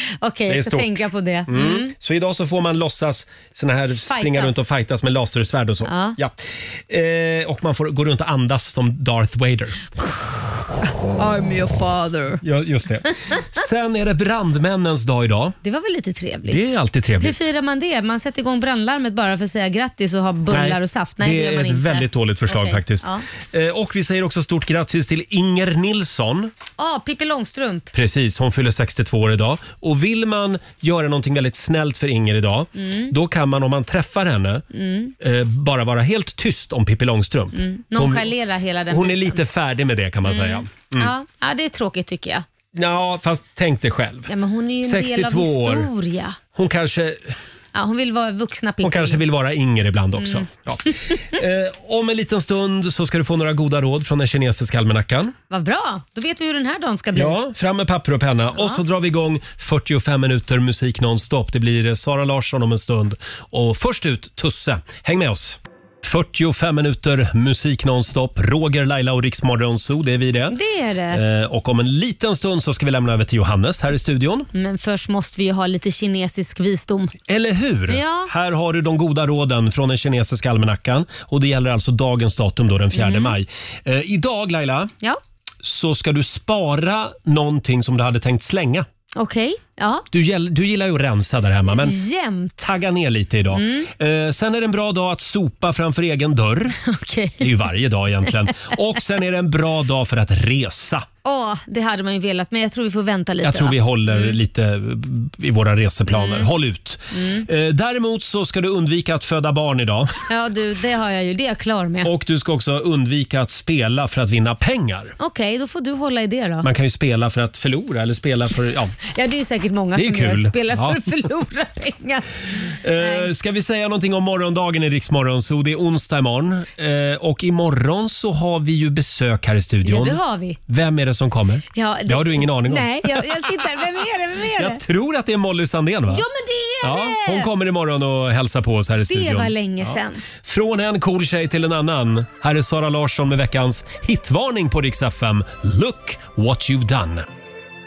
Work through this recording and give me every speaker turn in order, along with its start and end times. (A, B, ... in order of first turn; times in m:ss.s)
0:00.2-0:01.9 A
0:00.5-0:09.8 B
0:04.0-0:04.6 A
0:05.8-0:06.2 A
0:11.2-0:12.4 A
0:12.4-0:15.6 B
0:15.6-0:16.6 A
0:16.5-0:17.5 B
0:17.2-0:23.2 A
0:20.5-0:26.5 B
0:26.8-0:27.9 A
0:27.9-0:34.6 B
0:32.8-0:33.1 A
0:34.7-0:35.1 A
0:35.2-0:38.3 B
0:37.5-0:39.4 A
0:38.9-0:41.1 B
0:40.2-0:42.4 A
0:42.7-0:45.9 B
0:44.3-0:46.4 A
0:46.6-0:47.4 B
0:47.7-0:49.2 A
0:48.8-0:55.3 B
0:50.2-0:50.5 A
0:55.5-0:57.4 A
0:57.1-1:10.6 B
1:10.5-1:11.2 A
1:11.1-1:14.5 B
1:14.5-1:17.2 A
1:17.3-1:24.9 B
1:17.9-1:18.3 A
1:22.9-1:23.4 A
1:25.6-1:28.9 B
1:29.2-1:30.1 A
1:30.1-1:32.0 B
1:31.7-1:32.7 A
1:32.6-1:36.8 B
1:33.5-1:33.9 A
1:36.8-1:37.4 A
1:37.4-1:41.1 B
1:41.2-1:44.4 A
1:43.4-1:50.2 B
1:46.1-1:46.5 A
1:47.1-1:47.5 A
1:50.3-1:52.1 A
1:52.0-1:55.2 B
1:55.2-1:56.7 A
1:56.6-1:58.9 B
1:59.1-2:02.3 A
2:00.0-2:01.0 B
2:02.8-2:13.8 B
2:03.0-2:03.3 A
2:09.8-2:10.6 A
2:11.7-2:14.8 A
2:14.5-2:16.2 B
2:16.1-2:17.5 A
2:16.8-2:27.3 B
2:19.1-2:20.2 A